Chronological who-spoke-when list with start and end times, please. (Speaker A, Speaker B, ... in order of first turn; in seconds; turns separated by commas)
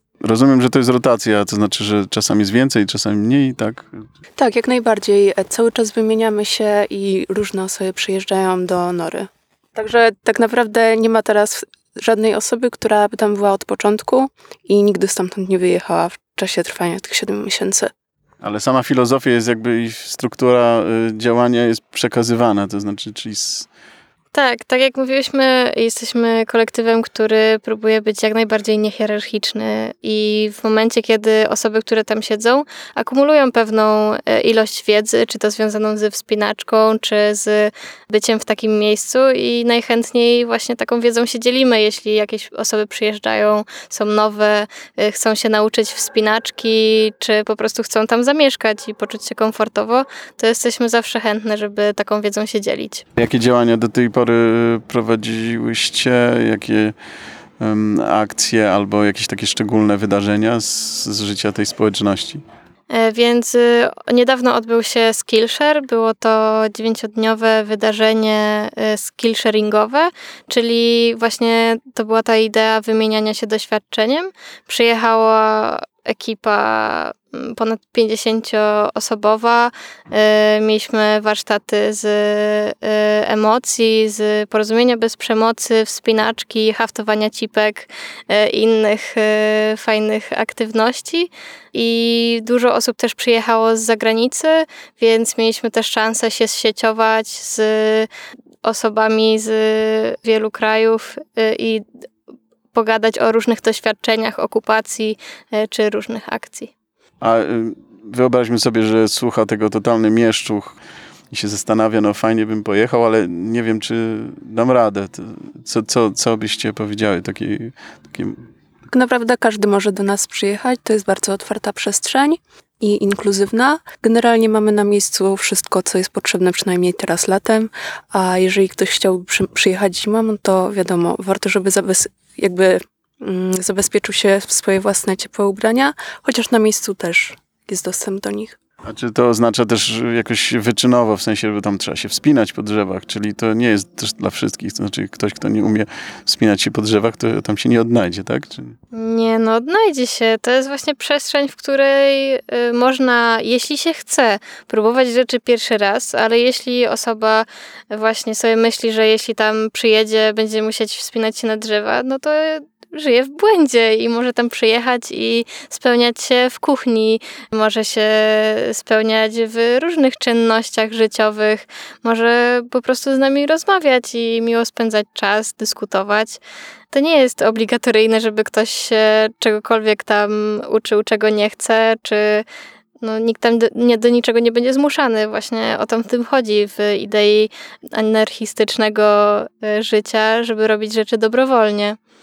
Speaker A: 0.2-4.0, Speaker B: 4.4-17.9, Speaker A: 18.4-23.7, Speaker C: 24.3-53.0, Speaker A: 53.1-56.9, Speaker A: 57.6-62.4, Speaker C: 62.9-98.1, Speaker C: 98.6-101.8, Speaker C: 102.7-106.7, Speaker A: 107.2-110.8, Speaker A: 111.3-118.4, Speaker B: 118.9-138.6, Speaker A: 138.8-148.8, Speaker C: 148.9-176.4, Speaker C: 176.9-182.4, Speaker C: 183.0-192.0